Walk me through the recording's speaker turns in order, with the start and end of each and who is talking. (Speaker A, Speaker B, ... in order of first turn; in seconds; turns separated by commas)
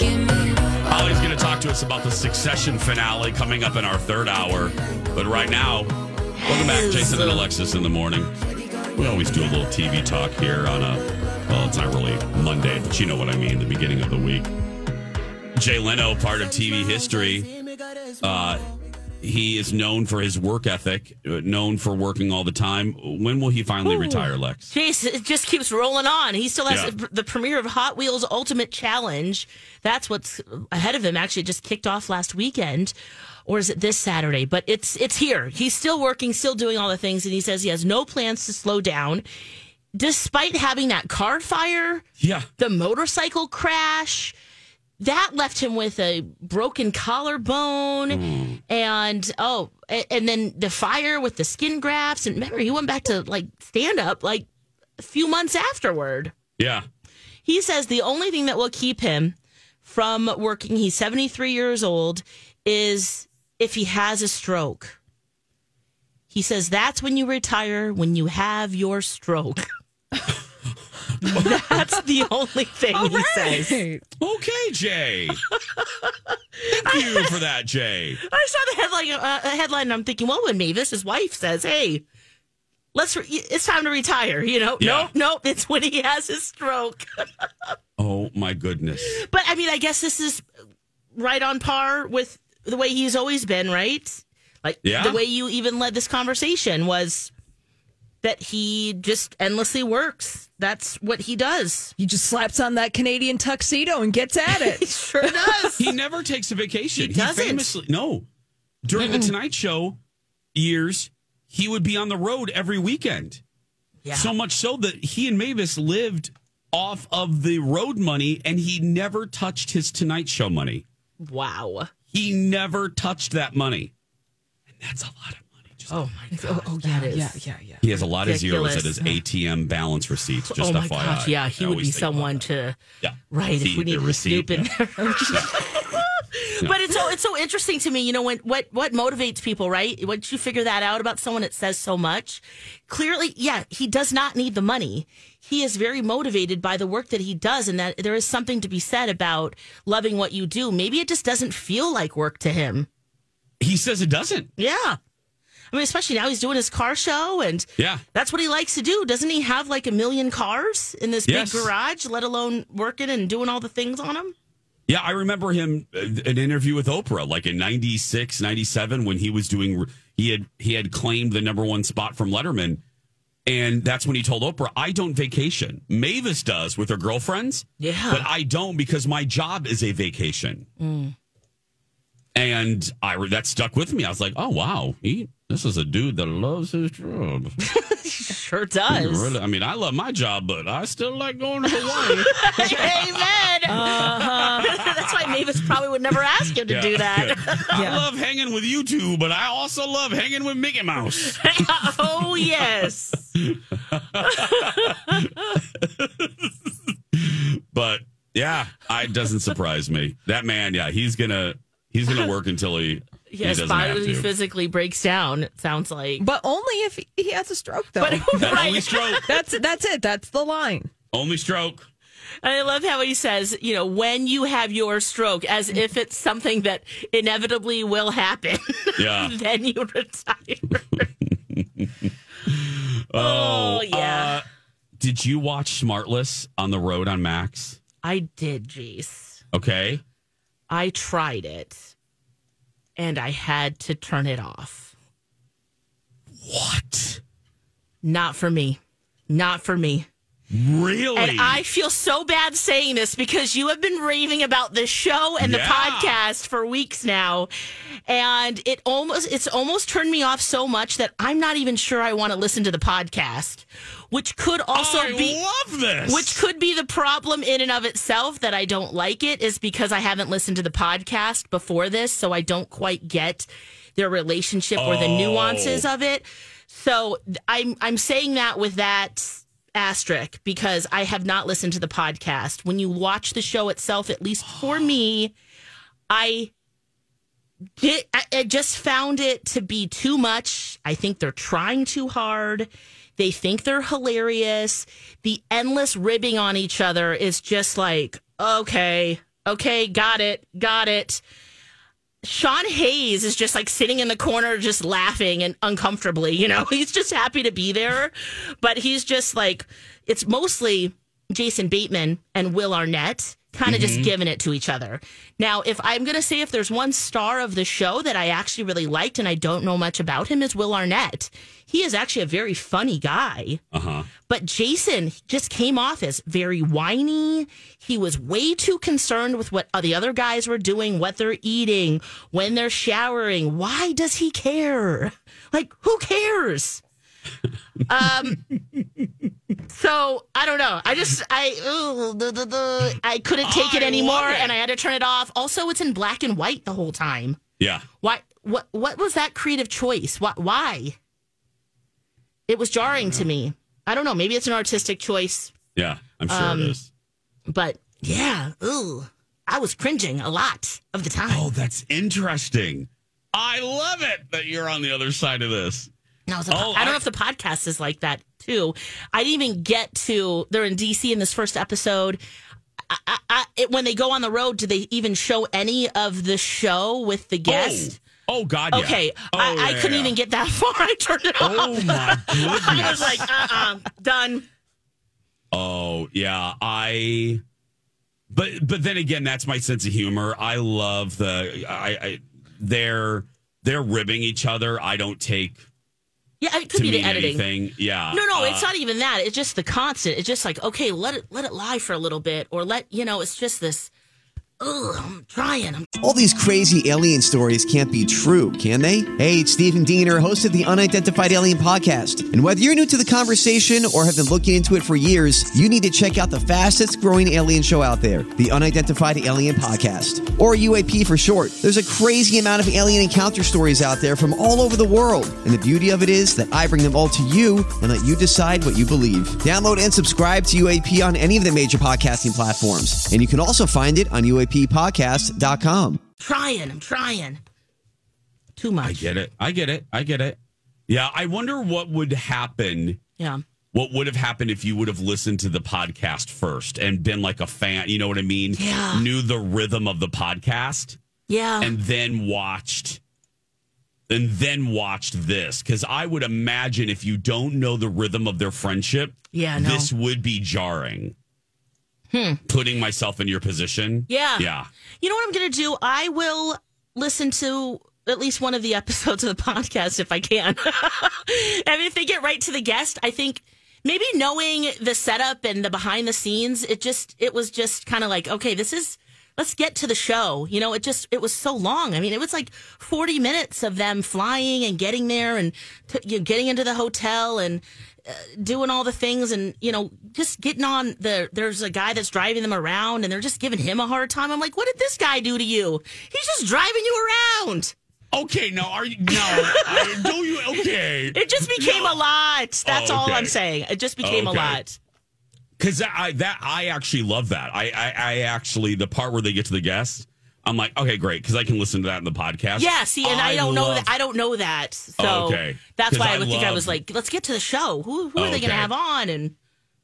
Speaker A: 0.8-8.3, Speaker B: 6.4-7.5, Speaker A: 8.9-14.5, Speaker A: 15.6-17.5, Speaker A: 18.2-18.7, Speaker A: 19.2-24.7, Speaker B: 23.8-33.0, Speaker B: 33.5-39.3, Speaker B: 39.9-42.0, Speaker A: 42.2-42.5, Speaker B: 42.6-44.4, Speaker B: 45.0-54.5, Speaker A: 48.1-48.6, Speaker B: 55.0-56.3, Speaker A: 56.6-56.9, Speaker B: 57.5-65.0, Speaker B: 66.3-69.7, Speaker A: 71.2-71.6, Speaker B: 71.3-73.8, Speaker C: 73.0-74.0, Speaker A: 74.2-75.4, Speaker B: 75.5-77.4, Speaker A: 76.7-78.2, Speaker B: 78.2-82.0, Speaker B: 82.9-87.7, Speaker A: 84.8-85.1, Speaker A: 88.0-89.2, Speaker B: 89.0-90.4, Speaker B: 91.2-97.3, Speaker A: 94.8-95.2, Speaker B: 98.2-101.9, Speaker C: 102.0-105.8, Speaker B: 104.5-105.9, Speaker A: 105.8-108.3, Speaker B: 107.0-107.7, Speaker A: 108.8-110.0, Speaker B: 109.0-109.3, Speaker A: 110.5-113.4, Speaker B: 114.0-114.3, Speaker A: 114.1-120.8, Speaker B: 121.2-121.9, Speaker A: 122.1-123.9, Speaker A: 124.8-125.9, Speaker B: 125.9-127.4, Speaker C: 126.3-127.8, Speaker A: 127.8-132.4, Speaker B: 128.0-129.2, Speaker B: 130.5-132.8, Speaker A: 133.0-134.7, Speaker B: 133.3-152.9, Speaker C: 135.0-135.4, Speaker A: 135.3-135.9, Speaker A: 153.6-154.5, Speaker B: 154.6-155.0, Speaker B: 155.7-164.3, Speaker A: 161.3-161.7, Speaker A: 164.9-172.8, Speaker A: 173.5-180.7, Speaker B: 177.8-178.3, Speaker B: 180.8-181.2, Speaker A: 182.3-187.5, Speaker B: 187.7-189.3, Speaker A: 188.9-195.3, Speaker B: 191.7-198.0, Speaker C: 193.7-194.7, Speaker A: 196.7-201.9, Speaker C: 197.7-198.1, Speaker B: 201.2-203.3, Speaker A: 203.4-214.3, Speaker B: 204.2-205.2, Speaker B: 213.3-216.2, Speaker C: 216.2-220.9, Speaker B: 218.0-219.2, Speaker A: 218.1-219.4, Speaker A: 221.1-221.9, Speaker B: 222.4-231.1, Speaker A: 229.0-229.3, Speaker A: 231.2-234.4, Speaker B: 233.2-234.4, Speaker A: 235.0-237.8, Speaker B: 238.0-239.4, Speaker A: 239.5-240.0, Speaker B: 240.7-241.9, Speaker B: 243.0-244.9, Speaker A: 246.4-247.2, Speaker B: 248.0-250.1, Speaker A: 250.5-251.6, Speaker B: 251.2-257.5, Speaker A: 255.4-256.2, Speaker B: 258.1-265.4, Speaker A: 264.7-266.4, Speaker B: 266.1-285.3, Speaker A: 274.8-275.9, Speaker B: 286.1-286.5, Speaker B: 287.8-301.2, Speaker B: 302.2-323.6, Speaker A: 313.7-314.1, Speaker A: 323.7-324.1, Speaker B: 324.3-336.8, Speaker B: 337.9-338.4, Speaker B: 339.7-347.4, Speaker A: 343.4-344.5, Speaker A: 347.6-347.9, Speaker B: 348.0-351.0, Speaker B: 352.5-355.6, Speaker A: 352.9-353.3, Speaker A: 355.8-356.9, Speaker B: 356.3-356.8, Speaker B: 357.5-361.5, Speaker A: 361.3-365.9, Speaker B: 366.3-372.2, Speaker A: 366.5-367.0, Speaker B: 372.9-378.0, Speaker A: 377.5-380.1, Speaker B: 378.7-384.4, Speaker A: 381.4-383.5, Speaker A: 385.5-387.4, Speaker A: 388.3-395.6, Speaker B: 396.4-397.4, Speaker A: 396.7-398.7, Speaker B: 398.1-403.9, Speaker B: 404.6-405.9, Speaker D: 406.0-436.0, Speaker B: 436.2-437.4, Speaker B: 438.6-439.1, Speaker A: 438.8-440.4, Speaker A: 440.9-443.0, Speaker B: 443.2-443.4, Speaker A: 443.7-451.0, Speaker B: 448.6-449.1, Speaker B: 451.3-451.8, Speaker A: 451.6-453.0, Speaker A: 454.1-461.1, Speaker B: 459.3-459.9, Speaker B: 462.1-462.4, Speaker A: 462.5-464.7, Speaker B: 464.1-464.5, Speaker B: 465.0-497.7, Speaker A: 498.1-502.0, Speaker B: 499.1-504.8, Speaker A: 502.6-503.4, Speaker A: 504.0-504.6, Speaker A: 505.6-513.9, Speaker B: 512.5-519.3, Speaker A: 515.0-516.8, Speaker A: 518.2-518.7